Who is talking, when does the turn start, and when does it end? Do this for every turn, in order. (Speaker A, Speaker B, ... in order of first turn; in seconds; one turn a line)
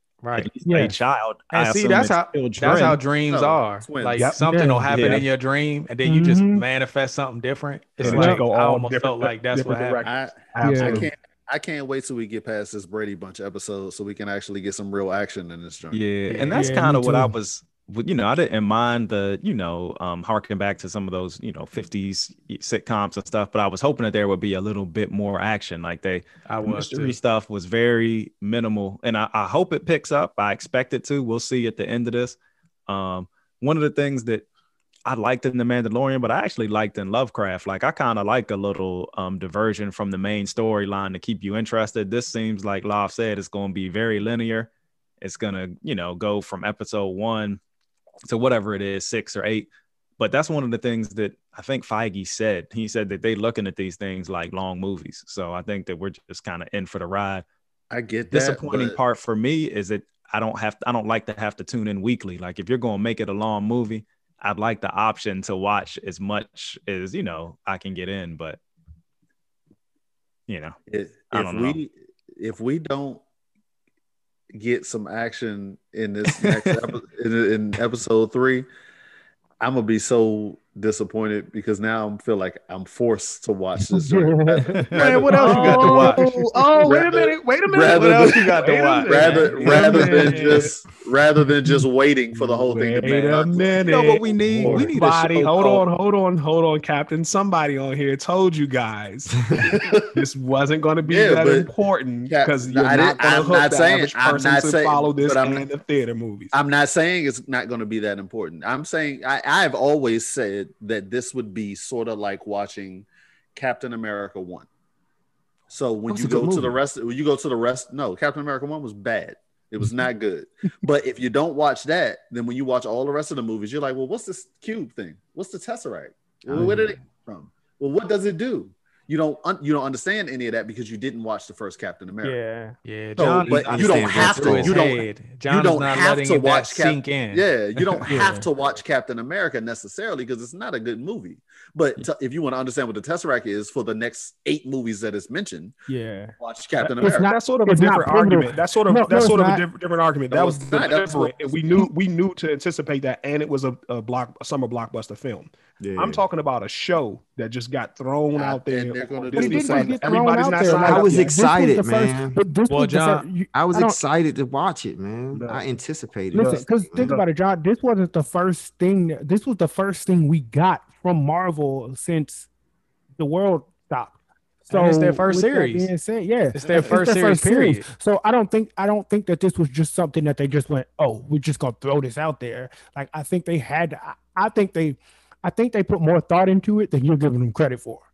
Speaker A: 0.2-0.5
Speaker B: 0.3-3.0
Speaker C: 0.6-0.9
Speaker A: 1.5-10.0
Speaker D: 3.3-4.3
Speaker E: 4.2-4.4
Speaker C: 4.4-4.9
Speaker B: 4.9-5.2
Speaker E: 4.9-5.2
Speaker C: 6.0-6.6
Speaker E: 8.0-11.1
Speaker C: 8.1-8.4
Speaker D: 10.0-16.0
Speaker C: 10.6-11.1
Speaker B: 15.9-34.5
Speaker A: 16.3-16.7
Speaker C: 16.3-17.3
Speaker A: 26.4-27.2
Speaker B: 35.0-44.7
Speaker B: 45.2-47.6
Speaker B: 48.2-49.7
Speaker B: 50.2-57.4
Speaker D: 57.9-59.0
Speaker B: 58.3-68.6
Speaker B: 70.5-70.8
Speaker D: 70.9-73.2
Speaker B: 71.3-71.8
Speaker D: 74.5-78.7
Speaker B: 76.3-76.9
Speaker D: 79.6-86.0
Speaker C: 83.9-87.0
Speaker A: 84.9-86.2
Speaker E: 85.3-90.8
Speaker D: 86.8-94.9
Speaker A: 87.8-90.5
Speaker E: 92.3-106.5
Speaker B: 93.8-95.8
Speaker D: 99.6-100.2
Speaker D: 101.0-101.7
Speaker D: 102.3-105.7
Speaker D: 106.5-114.7
Speaker D: 115.7-132.4
Speaker F: 116.1-116.8
Speaker C: 132.2-132.8
Speaker A: 132.8-137.4
Speaker D: 133.2-145.8
Speaker F: 133.2-134.9
Speaker C: 138.1-138.4
Speaker A: 138.1-138.4
Speaker C: 145.9-149.6
Speaker D: 146.4-147.3
Speaker E: 147.1-161.3
Speaker D: 150.3-151.8
Speaker F: 155.8-156.2
Speaker D: 158.3-161.0
Speaker C: 159.3-164.0
Speaker F: 160.8-162.4
Speaker A: 162.7-163.2
Speaker F: 163.5-167.1
Speaker E: 165.3-165.6
Speaker C: 166.3-172.5
Speaker E: 166.3-167.2
Speaker C: 173.2-188.0
Speaker A: 174.7-175.9
Speaker A: 176.5-177.8
Speaker D: 176.8-177.0